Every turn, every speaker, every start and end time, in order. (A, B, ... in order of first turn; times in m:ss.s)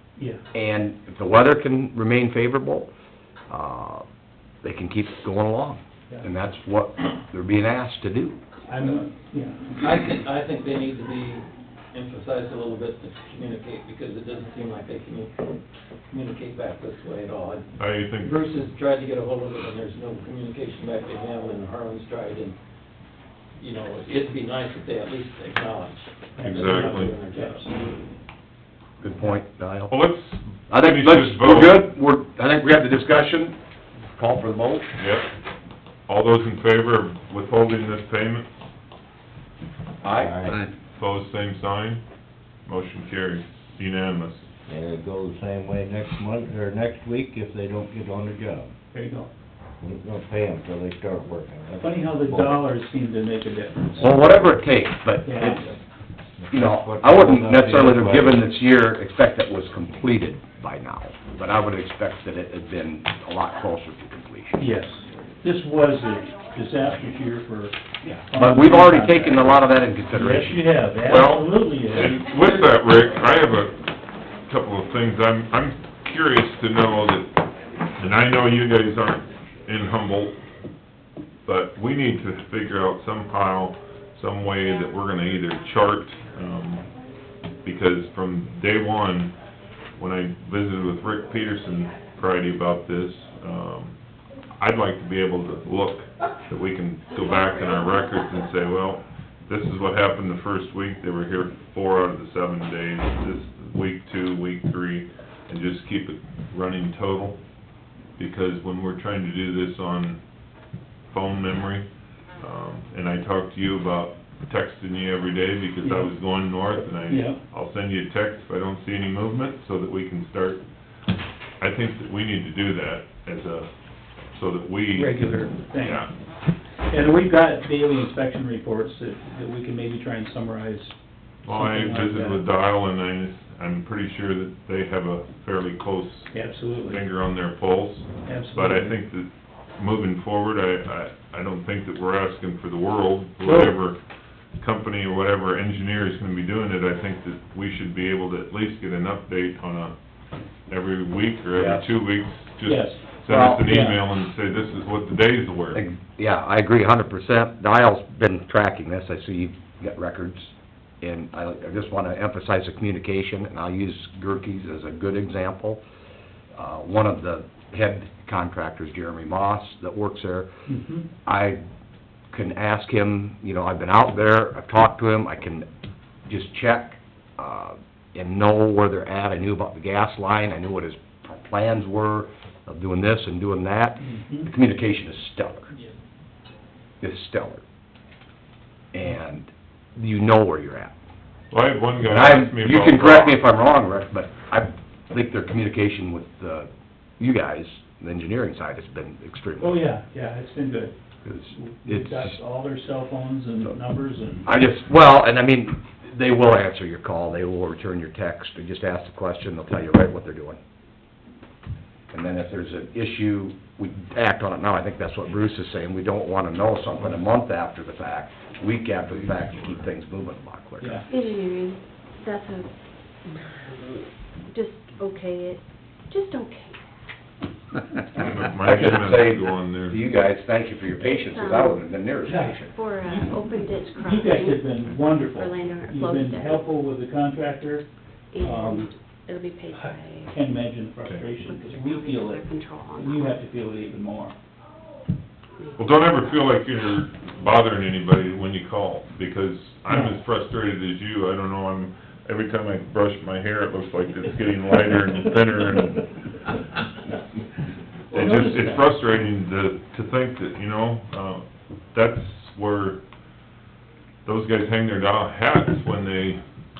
0:00.5-0:02.9 A
0:03.5-0:04.0 A
0:04.6-0:08.4 A
0:08.7-0:09.9 B
0:09.8-0:15.6 C
0:16.1-0:22.6 C
0:17.8-0:18.4 D
0:23.6-0:28.0 C
0:26.4-0:27.7 B
0:26.5-0:27.1 D
0:29.0-0:29.9 A
0:29.9-0:31.8 D
0:30.7-0:33.6 A
0:34.1-0:34.9 A
0:35.0-0:35.2 D
0:36.1-0:38.5 D
0:40.0-0:40.5 A
0:40.1-0:40.6 E
0:40.9-0:42.0 D
0:42.6-0:44.5 D
0:44.7-0:48.7 E
0:48.9-0:49.3 B
0:49.8-0:52.6 E
0:51.8-0:54.1 B
0:53.9-0:54.3 E
0:54.0-0:55.8 A
0:55.2-0:55.7 B
0:56.4-0:58.4 E
0:56.5-1:04.6 A
1:04.6-1:12.2 B
1:08.3-1:10.6 A
1:11.0-1:13.9 D
1:14.4-1:20.4 D
1:21.4-1:26.9 D
1:27.6-1:29.4 D
1:30.0-1:34.0 D
1:34.6-1:47.4 D
1:48.2-1:50.2 D
1:51.1-2:00.6 D
1:55.8-1:56.1 B
1:57.1-1:57.4 B
2:01.6-2:03.7 D
2:04.3-2:05.2 D
2:04.9-2:06.0 B
2:05.8-2:06.1 D
2:06.9-2:10.9 B
2:11.4-2:24.0 D
2:11.5-2:12.4 B
2:16.3-2:17.0 B
2:18.2-2:19.0 B
2:23.4-2:23.7 B
2:24.6-2:29.9 D
2:30.7-2:35.8 D
2:31.6-2:31.8 A
2:32.6-2:33.0 B
2:33.3-2:33.7 A
2:33.6-2:34.0 B
2:35.7-2:40.5 A
2:41.0-2:45.8 A
2:46.5-2:50.5 A
2:50.7-2:51.1 B
2:51.2-2:51.6 A
2:52.3-2:55.6 A
2:56.3-3:05.7 A
3:04.0-3:04.5 B
3:07.0-3:07.6 A
3:08.9-3:10.9 A
3:11.5-3:13.4 D
3:12.0-3:19.8 A
3:19.6-3:20.9 B
3:21.2-3:22.4 A
3:21.5-3:24.5 B
3:24.4-3:30.6 A
3:32.1-3:41.0 A
3:40.8-3:41.1 B
3:41.1-3:42.7 F
3:43.3-3:46.8 F
3:48.1-3:50.0 D
3:48.6-3:52.7 A
3:51.0-3:51.8 F
3:52.2-3:57.8 B
3:52.6-3:54.7 F
3:55.3-3:56.7 F
3:58.3-4:00.4 F
3:58.4-3:58.9 B
3:59.7-4:04.3 B
4:01.4-4:03.4 F
4:05.6-4:06.2 F
4:05.8-4:16.1 D
4:18.1-4:18.9 B
4:18.1-4:23.0 D
4:24.2-4:26.4 D